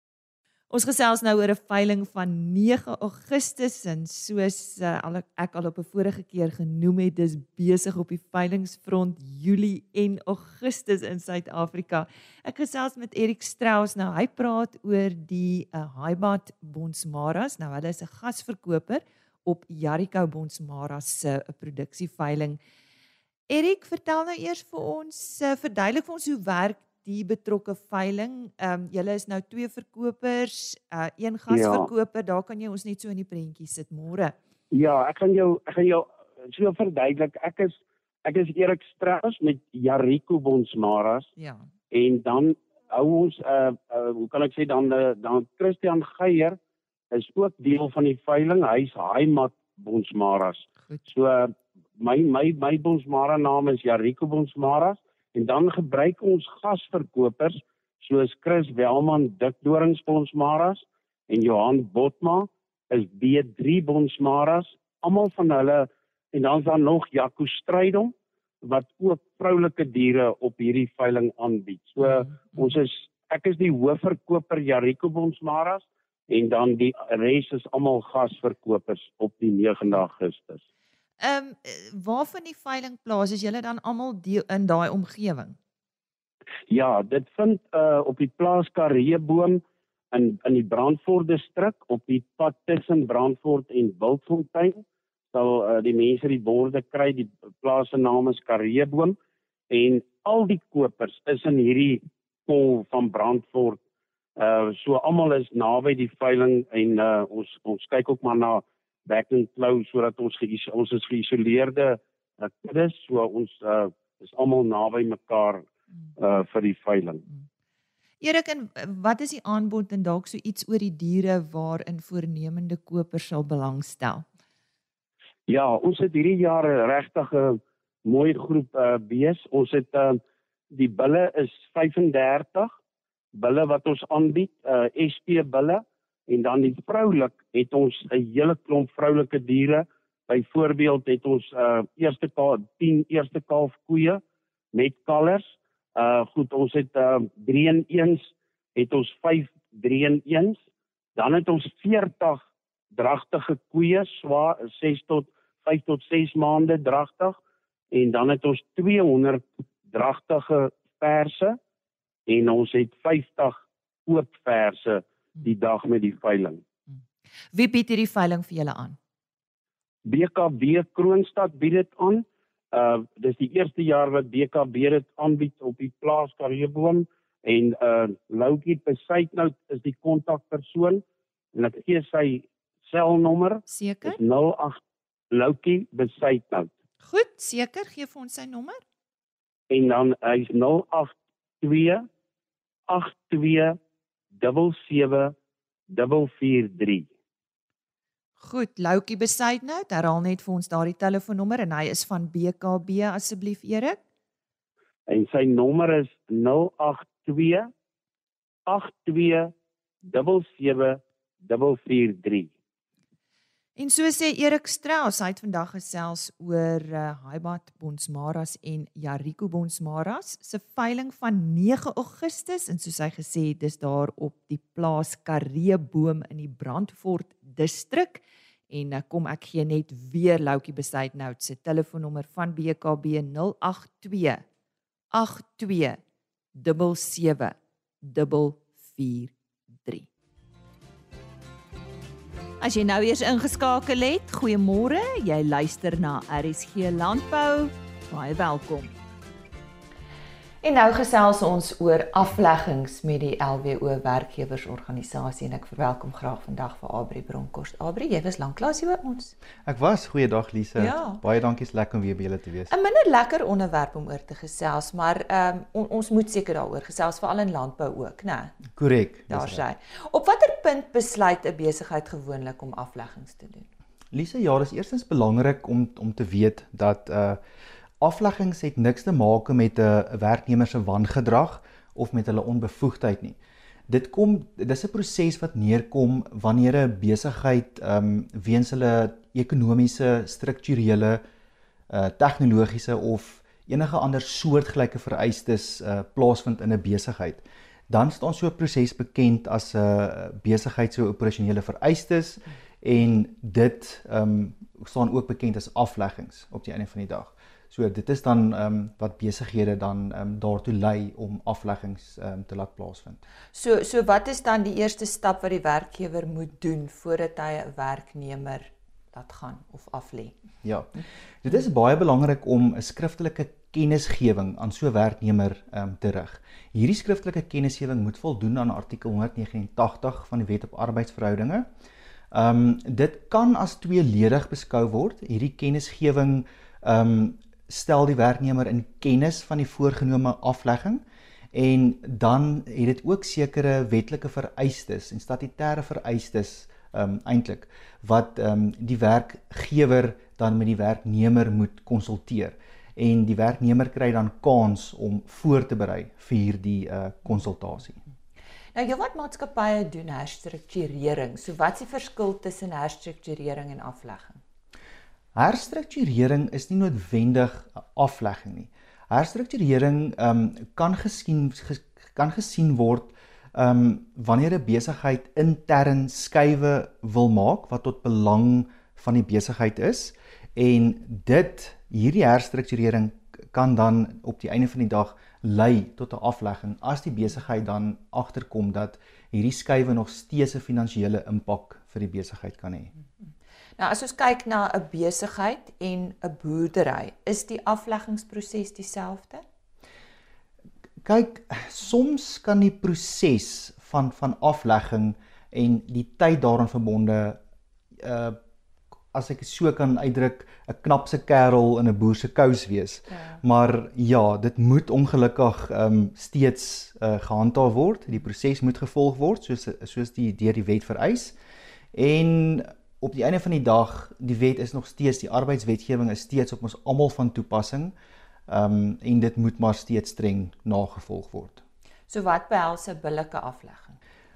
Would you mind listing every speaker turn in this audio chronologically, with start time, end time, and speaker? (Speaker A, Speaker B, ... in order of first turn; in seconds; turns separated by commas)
Speaker A: 0.7-22.6, Speaker A: 23.5-34.3, Speaker B: 31.5-31.9, Speaker B: 34.7-41.3, Speaker A: 41.4-41.6, Speaker B: 41.9-46.6, Speaker B: 47.1-80.6, Speaker A: 81.2-85.6, Speaker B: 86.7-99.2, Speaker B: 99.7-103.8, Speaker B: 104.4-117.2, Speaker A: 118.2-124.2, Speaker B: 125.5-130.2, Speaker B: 130.7-132.7, Speaker B: 133.3-144.2, Speaker B: 144.7-150.6, Speaker B: 151.2-157.4, Speaker B: 157.9-161.6, Speaker B: 162.3-166.6, Speaker A: 167.5-169.0, Speaker B: 170.1-181.0, Speaker B: 181.5-184.8, Speaker A: 183.7-184.2, Speaker B: 185.3-186.7, Speaker A: 187.0-188.8, Speaker B: 189.7-192.1, Speaker B: 192.9-193.8, Speaker B: 194.3-195.3, Speaker B: 195.9-197.1, Speaker A: 198.4-204.0, Speaker B: 205.1-207.7, Speaker B: 208.7-209.5, Speaker B: 210.0-212.5, Speaker A: 213.8-234.4, Speaker A: 235.1-236.0, Speaker A: 236.5-240.1, Speaker A: 242.6-248.9, Speaker A: 250.6-259.3, Speaker C: 259.6-262.7, Speaker A: 260.8-261.2, Speaker A: 262.7-268.6, Speaker C: 268.7-269.6, Speaker A: 269.3-273.7, Speaker C: 274.1-277.4, Speaker C: 278.0-283.4, Speaker C: 283.9-291.2, Speaker C: 291.9-313.2, Speaker A: 313.5-320.3, Speaker C: 320.6-331.7, Speaker C: 332.3-358.0, Speaker A: 358.7-364.4, Speaker C: 365.3-392.9, Speaker A: 393.8-399.4, Speaker C: 401.0-407.4, Speaker C: 408.0-408.4, Speaker C: 409.1-421.3, Speaker C: 421.9-427.9, Speaker C: 428.5-431.6, Speaker A: 432.1-434.0